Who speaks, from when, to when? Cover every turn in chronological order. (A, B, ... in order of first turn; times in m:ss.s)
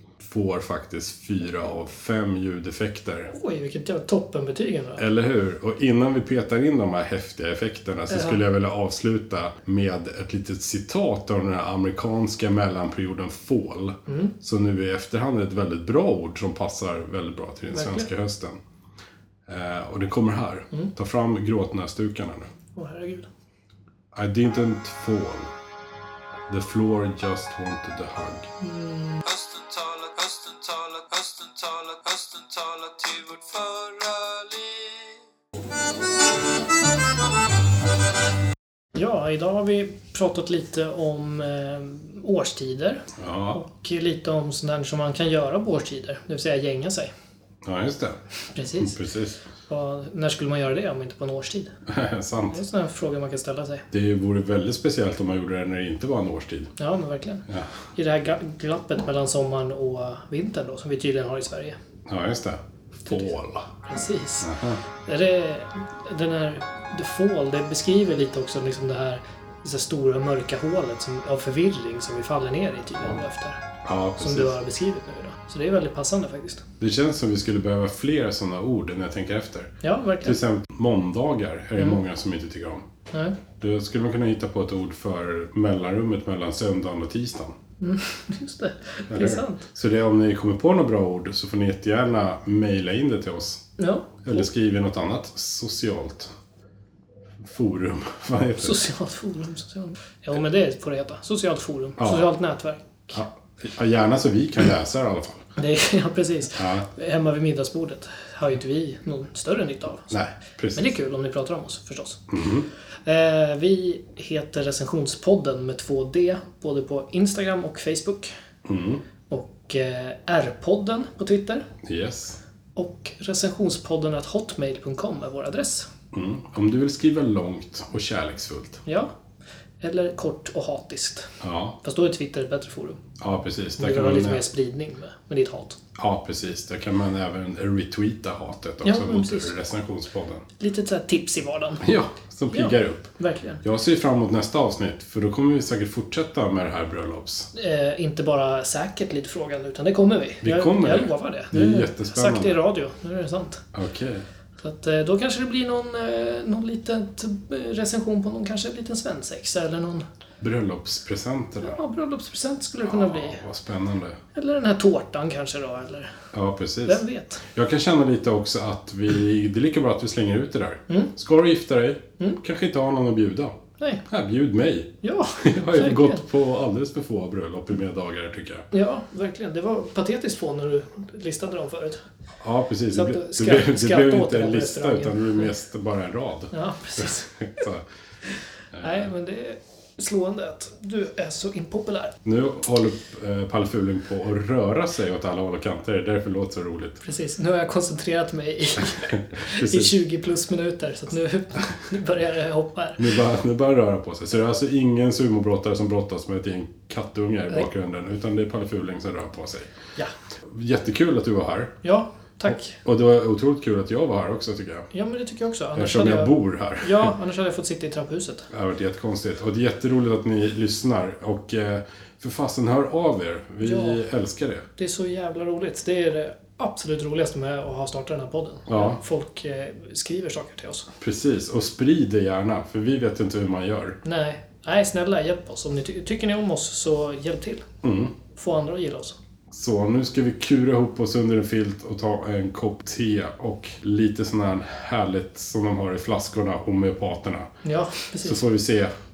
0:00.2-0:03.3 A
0:03.3-0:05.0 B
0:05.0-0:18.6 A
0:08.1-0:08.4 B
0:14.1-0:14.3 B
0:17.8-0:18.1 B
0:19.5-0:22.5 A
0:22.8-0:23.3 B
0:24.1-0:25.5 A
0:26.5-0:28.5 A
0:28.6-0:29.2 B
0:29.2-0:35.2 C
0:39.0-0:47.1 B
0:43.2-0:43.6 A
0:47.6-0:48.2 A
0:48.5-0:49.0 B
0:48.8-0:49.4 A
0:49.7-0:51.7 B
0:51.9-0:52.6 A
0:52.5-0:53.9 B
0:53.9-0:56.7 A
0:56.8-1:01.8 B
1:02.1-1:03.7 A
1:03.1-1:03.3 B
1:03.8-1:13.6 B
1:04.4-1:04.8 A
1:13.8-1:14.6 A
1:14.2-1:16.6 B
1:16.8-1:22.9 A
1:19.8-1:20.4 B
1:23.1-1:23.4 B
1:23.6-1:27.6 A
1:27.8-1:29.7 B
1:29.1-1:33.7 A
1:33.8-1:34.5 B
1:34.2-1:36.3 A
1:37.4-1:38.8 A
1:38.6-1:43.2 B
1:42.0-1:42.3 A
1:43.1-1:45.5 A
1:45.6-1:50.2 B
1:46.6-1:46.9 A
1:50.1-1:50.9 A
1:50.8-1:52.3 B
1:52.3-1:52.7 A
1:53.1-1:58.3 B
1:58.7-1:59.0 A
1:59.3-2:01.7 B
2:01.8-2:02.4 A
2:02.8-2:05.9 B
2:06.1-2:08.8 A
2:08.9-2:09.1 B
2:09.8-2:13.0 B
2:11.4-2:11.8 A
2:13.2-2:14.4 A
2:13.8-2:15.8 B
2:16.0-2:20.4 A
2:18.8-2:19.6 B
2:20.6-2:21.9 B
2:21.8-2:27.5 A
2:22.5-2:23.6 B
2:27.5-2:33.6 B
2:30.4-2:32.6 A
2:33.7-2:34.2 A
2:34.6-2:40.0 B
2:40.4-2:41.8 A
2:41.6-2:43.4 B
2:42.8-2:44.2 A
2:44.3-2:46.1 B
2:46.3-2:53.6 A
2:46.9-2:47.4 B
2:53.8-2:54.0 B
2:54.1-2:58.7 A
2:55.0-2:56.2 B
2:58.7-3:02.0 B
3:02.4-3:07.8 A
3:02.9-3:05.5 B
3:06.5-3:07.4 B
3:08.7-3:09.1 A
3:08.8-3:12.2 B
3:12.2-3:17.0 A
3:17.0-3:23.2 B
3:19.0-3:19.9 A
3:23.0-3:29.7 A
3:30.5-3:31.8 A
3:31.8-3:32.8 B
3:32.7-3:34.9 A
3:34.9-3:38.5 B
3:35.8-3:37.1 A
3:38.5-3:44.6 A
3:43.6-3:44.0 B
3:44.8-3:50.9 B
3:48.7-3:49.0 A
3:51.0-3:54.0 A
3:54.0-3:57.7 B
3:57.8-3:58.1 A
3:58.2-3:59.2 B
3:59.5-4:07.5 A
4:07.6-4:08.5 B
4:08.2-4:08.9 A